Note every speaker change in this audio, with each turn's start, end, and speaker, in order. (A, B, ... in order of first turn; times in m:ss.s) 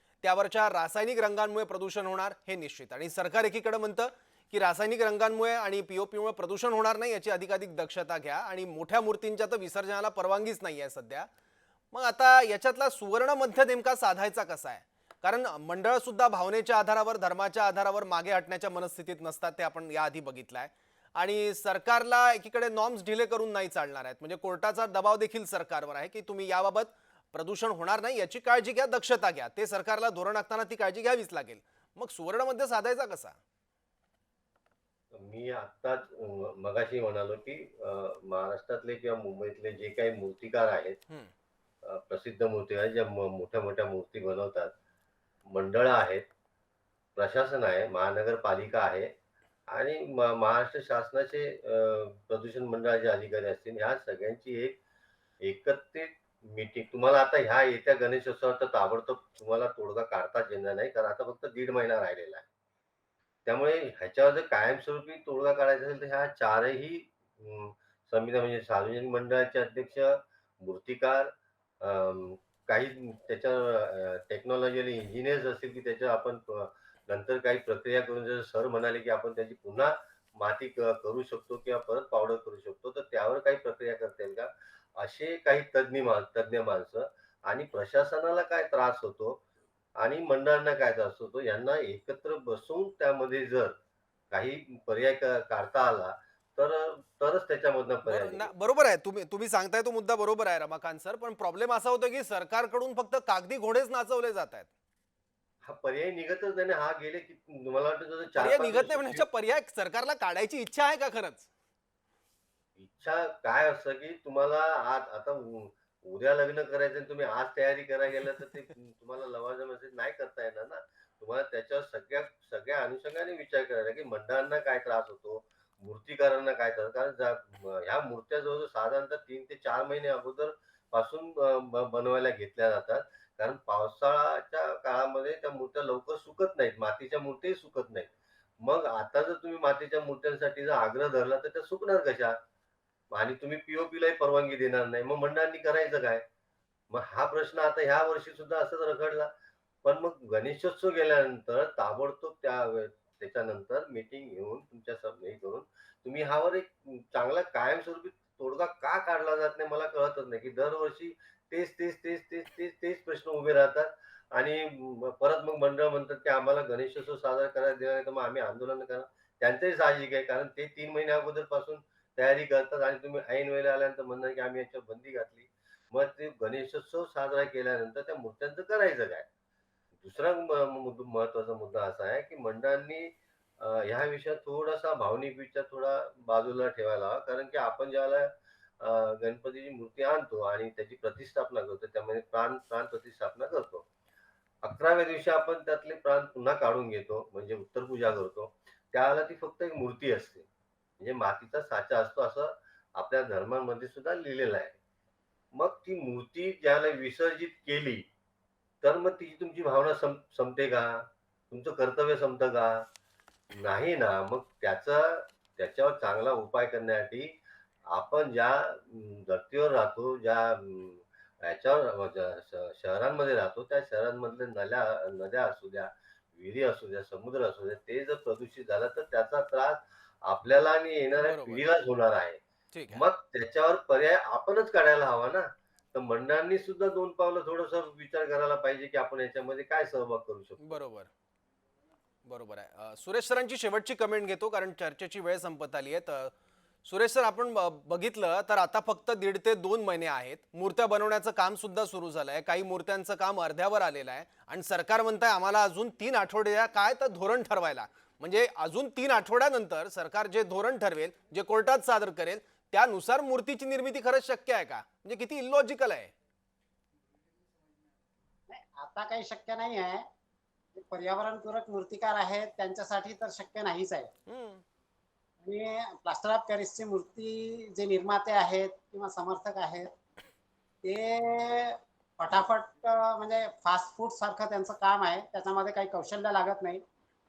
0:00.2-0:11.3 A
0:11.9-0:33.4 A
0:35.1-0:41.0 B
0:41.8-0:44.7 B
0:45.5-0:46.3 B
0:47.2-0:49.1 B
0:49.7-0:54.8 B
0:55.4-1:02.5 B
1:03.4-1:29.4 B
1:30.0-1:33.8 B
1:34.3-1:38.5 B
1:38.1-1:44.7 A
1:45.6-1:49.2 B
1:48.4-1:51.5 A
1:52.8-2:22.4 B
2:23.1-2:26.2 B
2:26.9-2:29.3 B
2:29.8-2:59.3 B
3:00.0-3:13.9 B
3:14.6-3:20.5 B
3:21.0-3:24.8 B
3:25.5-3:28.1 B
3:28.8-3:32.9 B
3:33.5-3:52.4 B
3:51.2-3:51.7 A
3:52.7-3:53.0 A
3:52.9-4:00.8 B
4:00.6-4:01.1 A
4:02.3-4:06.3 A
4:06.8-4:26.1 A
4:28.5-4:30.1 C
4:30.8-4:34.1 C
4:34.3-4:34.6 A
4:35.4-4:39.9 C
4:40.8-4:46.8 C